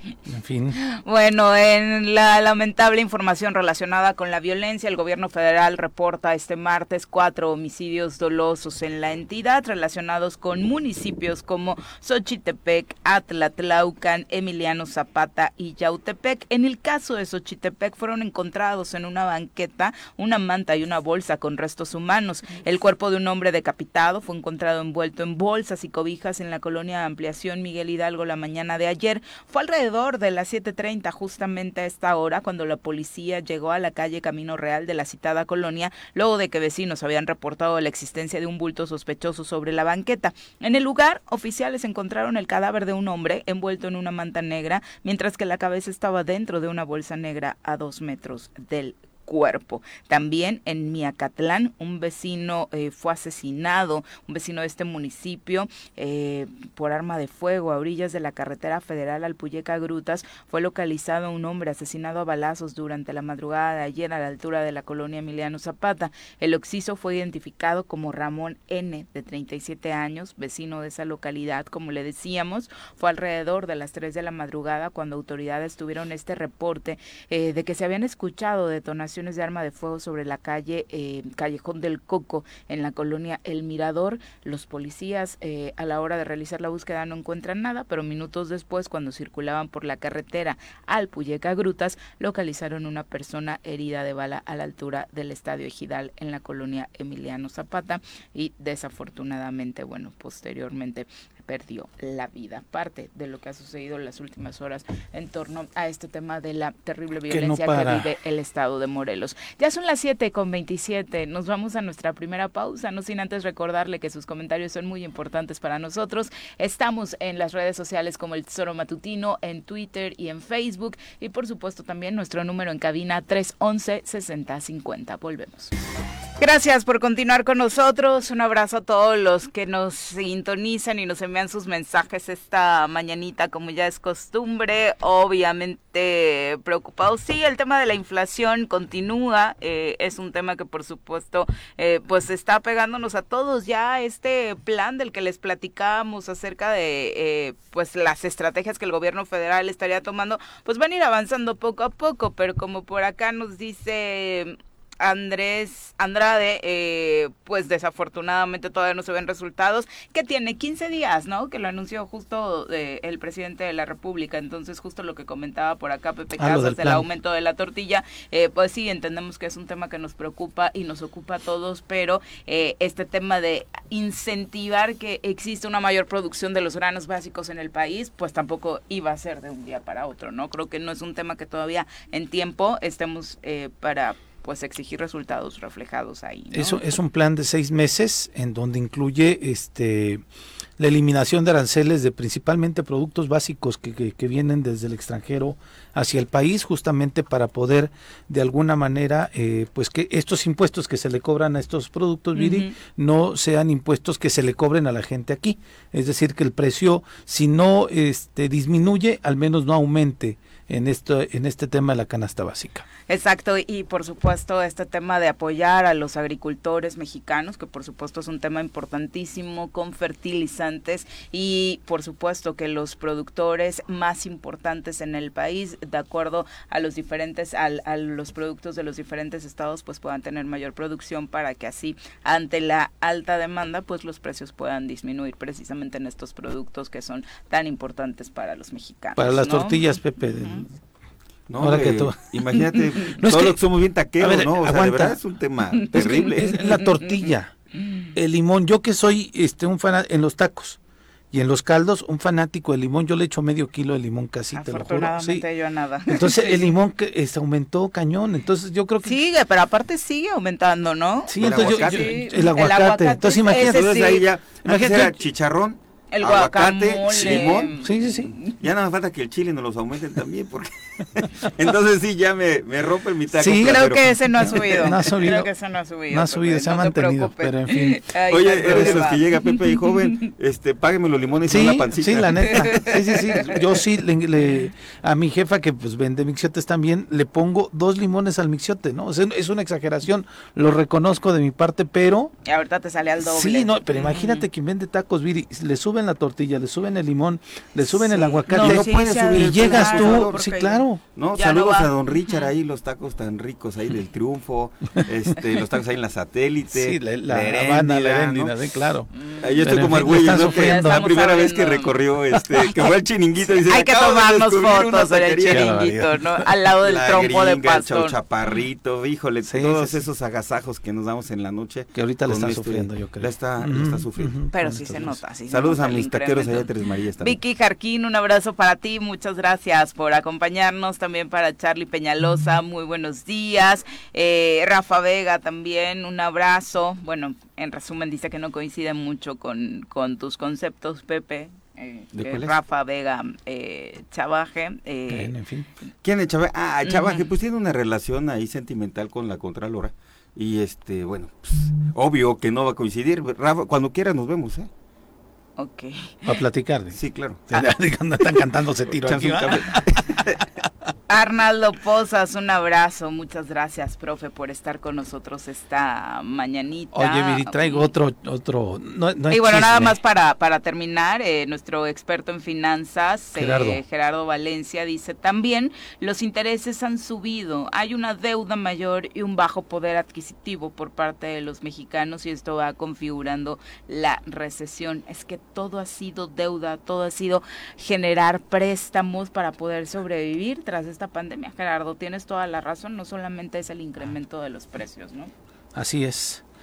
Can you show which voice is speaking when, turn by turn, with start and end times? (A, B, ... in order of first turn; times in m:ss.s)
0:00.3-0:00.8 A
0:00.8-2:05.7 B
1:47.3-1:48.1 A
2:06.4-3:06.8 B
2:46.4-2:47.0 A
3:06.5-3:10.2 A
3:10.8-3:32.9 A
3:22.4-3:22.7 B
3:33.1-4:00.6 B
3:59.2-4:00.7 A
4:01.5-4:06.7 C
4:01.6-4:02.6 A
4:03.1-4:03.6 A
4:04.2-4:05.2 A
4:05.9-4:07.5 A
4:05.9-4:07.3 B
4:07.8-4:08.1 B
4:08.2-4:10.8 A
4:11.3-4:15.4 A
4:14.5-4:16.7 B
4:16.1-4:19.2 A
4:19.0-4:24.2 B
4:21.3-4:24.0 A
4:21.4-4:22.2 C
4:23.5-4:27.8 C
4:24.6-4:25.2 A
4:26.1-4:28.5 B
4:27.1-4:28.3 A
4:28.3-4:34.9 C
4:33.4-4:35.5 A
4:33.6-4:39.9 B
4:36.1-4:39.0 A
4:38.3-4:43.5 C
4:41.5-4:52.3 A
4:52.4-4:54.4 B
4:53.2-5:01.0 A
4:57.9-5:02.5 B
4:58.5-5:00.5 C
5:01.2-5:08.6 C
5:06.7-5:11.1 A
5:09.2-5:11.9 B
5:09.4-5:15.9 C
5:13.7-5:18.2 B
5:15.5-5:16.5 A
5:16.8-5:27.4 C
5:19.4-5:20.0 A
5:21.9-5:25.2 A
5:24.5-5:26.7 B
5:27.2-5:45.9 B
5:42.1-5:42.6 C
5:45.1-5:45.7 A
5:46.0-5:54.7 C
5:46.9-5:47.2 B
5:55.6-5:56.3 B
5:56.3-6:00.3 A
5:56.9-5:57.7 C
5:58.9-6:00.4 C
6:01.1-6:07.9 B
6:06.9-6:10.0 A
6:09.3-6:35.3 B
6:13.4-6:13.8 A
6:35.8-6:36.4 A